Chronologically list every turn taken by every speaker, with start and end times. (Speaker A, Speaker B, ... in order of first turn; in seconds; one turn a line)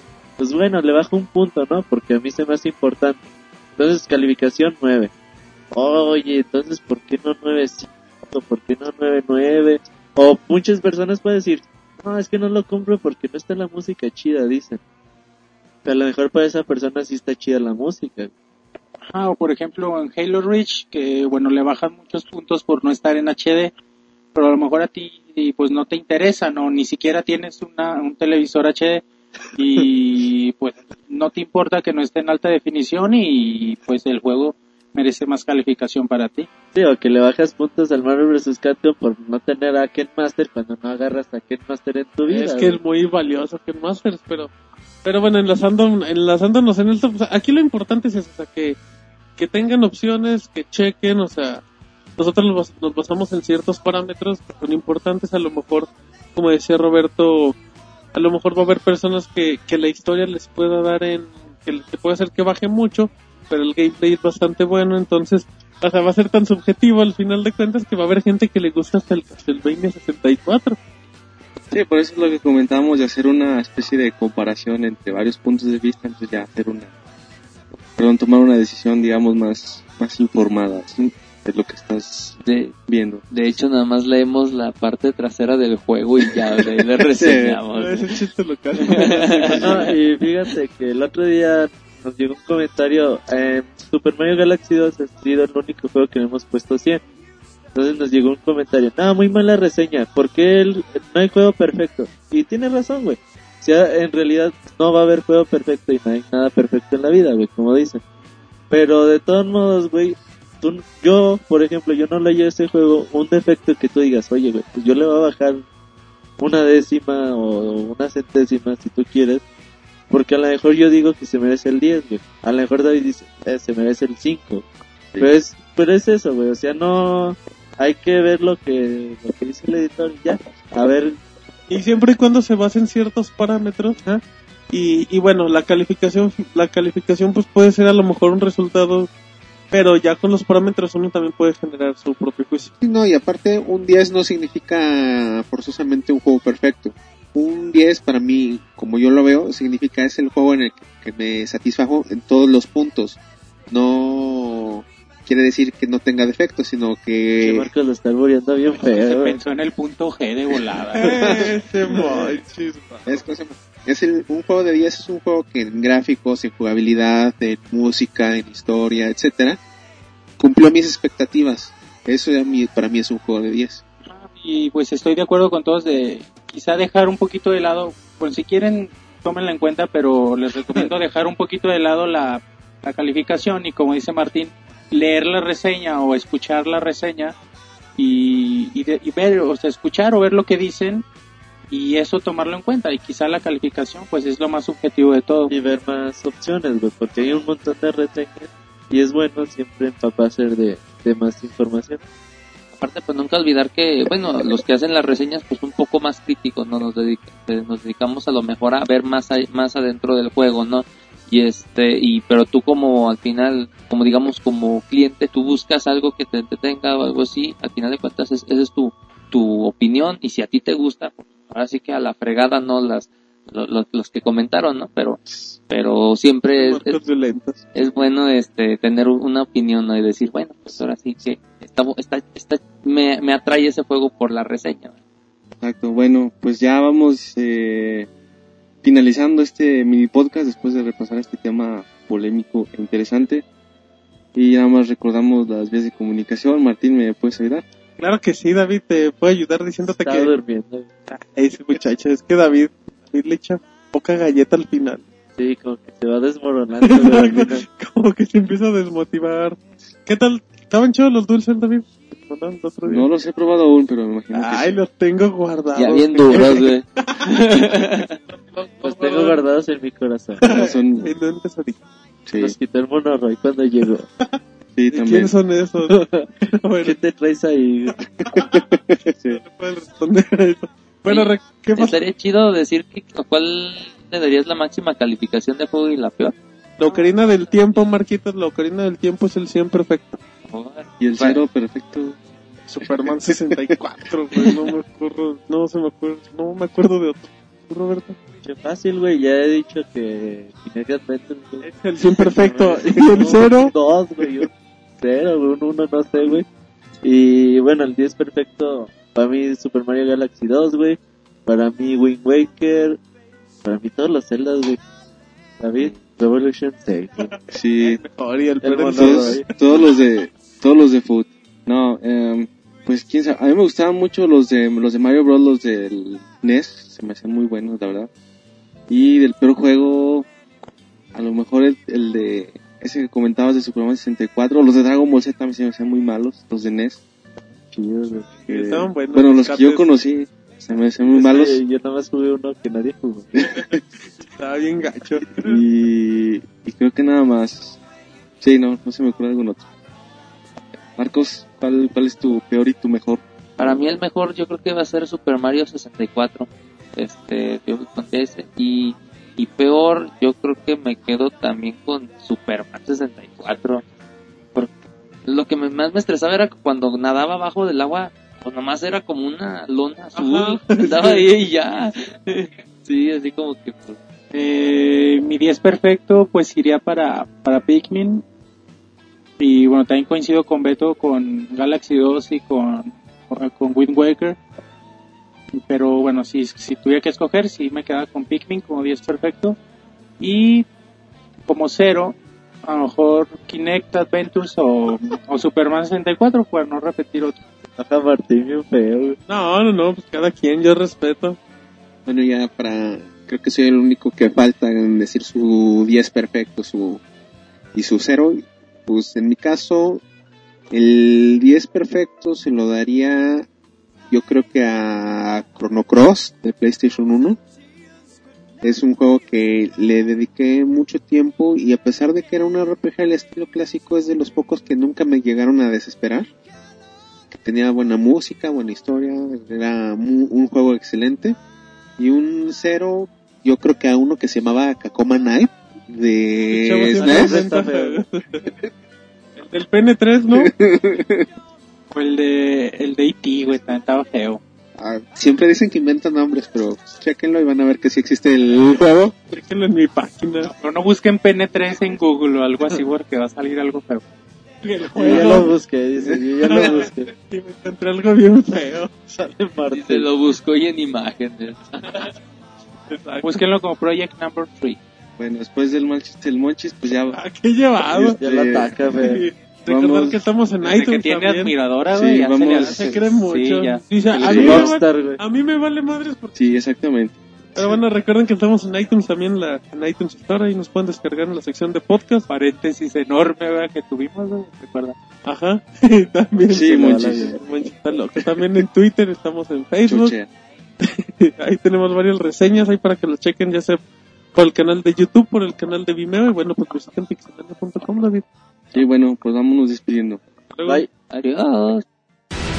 Speaker A: 0.4-3.2
Speaker A: 3.8-5.1
Speaker A: 5.7-14.8
Speaker A: 15.8-18.3
Speaker B: 19.1-23.7
Speaker B: 24.3-29.1
Speaker B: 29.6-36.5
Speaker A: 36.7-42.8
Speaker C: 42.3-44.5
Speaker C: 45.0-48.8
Speaker C: 49.4-51.6
Speaker C: 52.2-57.6
Speaker C: 58.1-70.8
Speaker D: 71.7-76.9
Speaker D: 78.0-83.2
Speaker E: 82.4-82.8
Speaker E: 83.3-88.1
Speaker D: 87.0-87.6
Speaker C: 87.7-89.9
Speaker E: 88.8-89.8
Speaker A: 89.6-97.0
Speaker A: 97.8-108.0
Speaker A: 108.7-115.6
Speaker A: 116.4-119.4
Speaker A: 120.1-124.7
Speaker A: 125.2-131.2
Speaker C: 131.7-139.1
Speaker C: 139.7-142.7
Speaker F: 142.8-157.7
Speaker A: 157.4-159.4
Speaker B: 159.0-161.2
Speaker C: 161.0-163.2
Speaker F: 163.1-169.6
Speaker F: 170.4-173.8
Speaker B: 174.1-187.3
Speaker B: 188.0-191.1
Speaker B: 191.7-195.5
Speaker A: 195.5-202.0
Speaker E: 202.8-227.0
Speaker C: 226.5-227.6
Speaker E: 227.7-234.9
Speaker D: 235.6-238.1
Speaker D: 238.8-243.4
Speaker D: 244.3-247.7
Speaker C: 248.0-250.3
Speaker A: 249.9-250.9
Speaker C: 251.1-255.0
Speaker A: 255.4-257.6
Speaker C: 256.8-263.1
Speaker D: 262.9-264.8
Speaker C: 264.3-268.0
Speaker E: 265.8-268.2
Speaker C: 268.5-269.4
Speaker A: 268.8-270.6
Speaker C: 270.4-271.8
Speaker D: 270.5-271.1
Speaker D: 272.3-272.6
Speaker A: 272.4-274.1
Speaker D: 274.8-275.3
Speaker C: 274.9-277.0
Speaker A: 275.9-276.3
Speaker A: 276.8-277.9
Speaker C: 278.2-278.8
Speaker D: 278.3-279.4
Speaker C: 279.3-282.0
Speaker E: 281.1-287.1
Speaker C: 286.8-290.2
Speaker E: 290.5-291.4
Speaker D: 291.0-292.2
Speaker C: 292.7-298.2
Speaker D: 292.8-293.2
Speaker A: 298.4-304.5
Speaker C: 301.6-303.7
Speaker A: 305.0-306.5
Speaker A: 307.0-313.0
Speaker A: 313.6-314.8
Speaker A: 315.6-317.3
Speaker D: 317.5-318.0
Speaker C: 317.8-319.8
Speaker A: 318.6-319.5
Speaker D: 319.0-328.1
Speaker D: 328.9-330.3
Speaker D: 331.1-337.0
Speaker A: 337.7-338.3
Speaker C: 338.5-339.9
Speaker D: 338.5-341.6
Speaker A: 341.1-343.3
Speaker D: 343.4-343.8
Speaker C: 344.3-345.6
Speaker D: 345.4-347.8
Speaker D: 348.4-349.7
Speaker D: 351.0-353.9
Speaker E: 353.6-363.8
Speaker E: 365.3-374.0
Speaker C: 370.2-371.3
Speaker B: 374.3-378.2
Speaker B: 379.4-384.4
Speaker B: 385.6-389.6
Speaker B: 390.2-390.7
Speaker B: 391.5-397.4
Speaker A: 397.8-399.2
Speaker C: 399.3-401.4
Speaker F: 402.1-407.0
Speaker F: 407.7-410.0
Speaker F: 410.7-413.5
Speaker F: 414.1-417.4
Speaker F: 418.6-426.3
Speaker F: 427.3-431.4
Speaker F: 432.0-437.4
Speaker C: 436.5-438.5
Speaker A: 437.0-438.0
Speaker C: 439.4-440.5
Speaker F: 440.7-441.0
Speaker B: 441.9-444.4
Speaker F: 444.8-449.1
Speaker C: 449.3-450.5
Speaker B: 450.5-454.0
Speaker C: 454.6-455.5
Speaker A: 454.9-457.1
Speaker C: 456.4-459.2
Speaker A: 459.2-460.1
Speaker E: 459.7-462.1
Speaker C: 462.9-463.4
Speaker B: 463.2-464.8
Speaker D: 465.2-467.2
Speaker C: 467.1-468.2
Speaker D: 467.8-468.8
Speaker A: 468.2-469.2
Speaker C: 468.9-471.5
Speaker D: 469.7-470.2
Speaker B: 470.6-473.9
Speaker D: 471.9-473.0
Speaker C: 472.5-476.4
Speaker D: 474.1-474.7
Speaker A: 474.1-475.2
Speaker D: 476.4-477.8
Speaker C: 477.6-482.3
Speaker B: 482.3-485.0
Speaker C: 485.2-490.1
Speaker D: 486.5-487.4
Speaker A: 486.8-487.4
Speaker D: 489.9-490.3
Speaker C: 490.8-493.8
Speaker C: 494.4-498.3
Speaker D: 498.7-500.2
Speaker C: 500.5-500.9
Speaker E: 501.1-501.8